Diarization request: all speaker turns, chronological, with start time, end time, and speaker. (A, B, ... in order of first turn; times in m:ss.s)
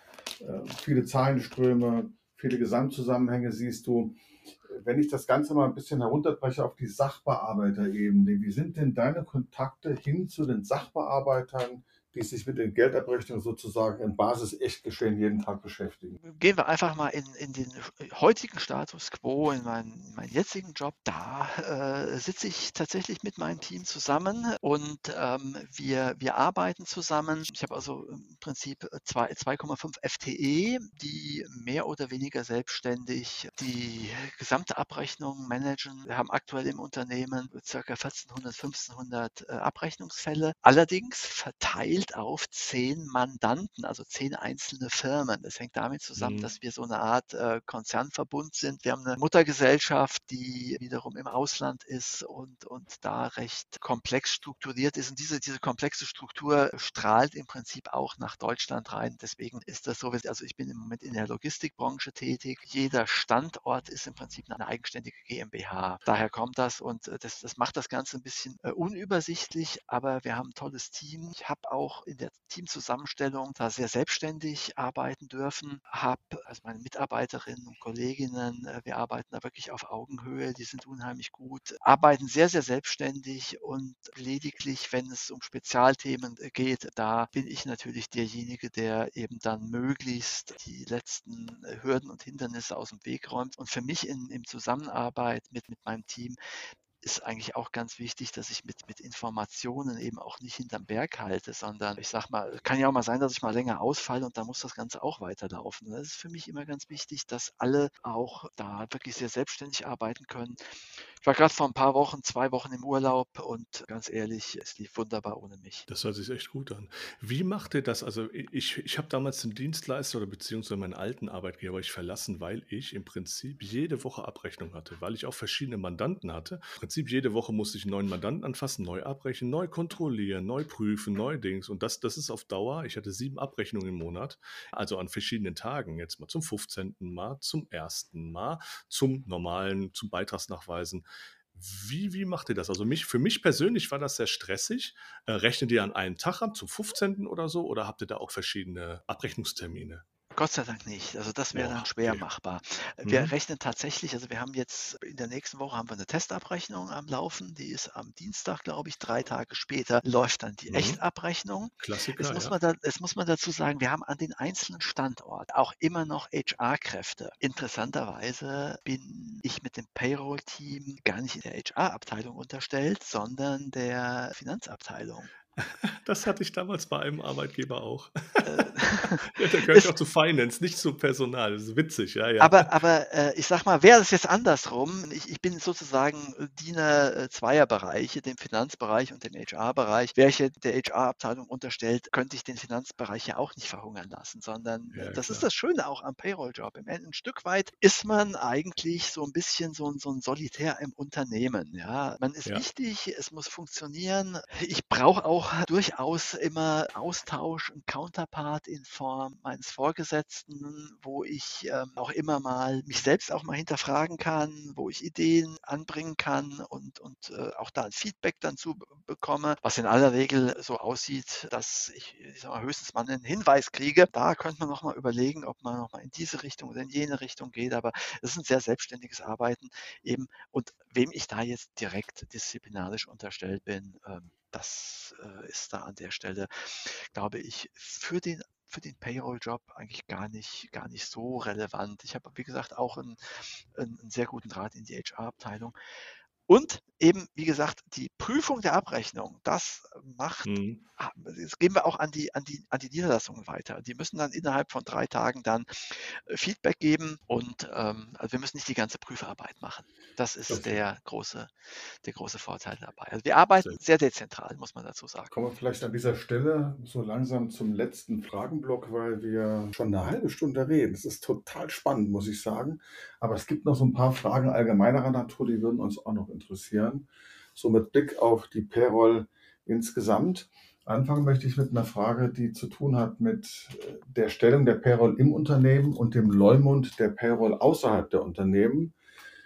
0:00.4-0:16.2 A
0:16.2-1:36.4 B
0:46.2-0:46.5 C
1:37.0-1:50.6 B
1:51.2-1:55.8 B
1:55.9-2:30.0 C
2:30.3-2:55.3 B
2:31.5-2:32.2 C
2:33.0-2:33.3 C
2:40.7-2:41.0 C
2:41.8-2:42.5 C
2:55.6-2:58.6 C
2:58.4-2:59.9 B
2:59.2-3:02.7 C
3:02.4-4:03.2 B
3:14.9-3:15.5 C
4:03.7-4:05.7 B
4:06.5-4:21.5 B
4:10.4-4:10.8 C
4:20.5-4:20.8 C
4:22.0-4:25.3 B
4:25.3-4:48.9 A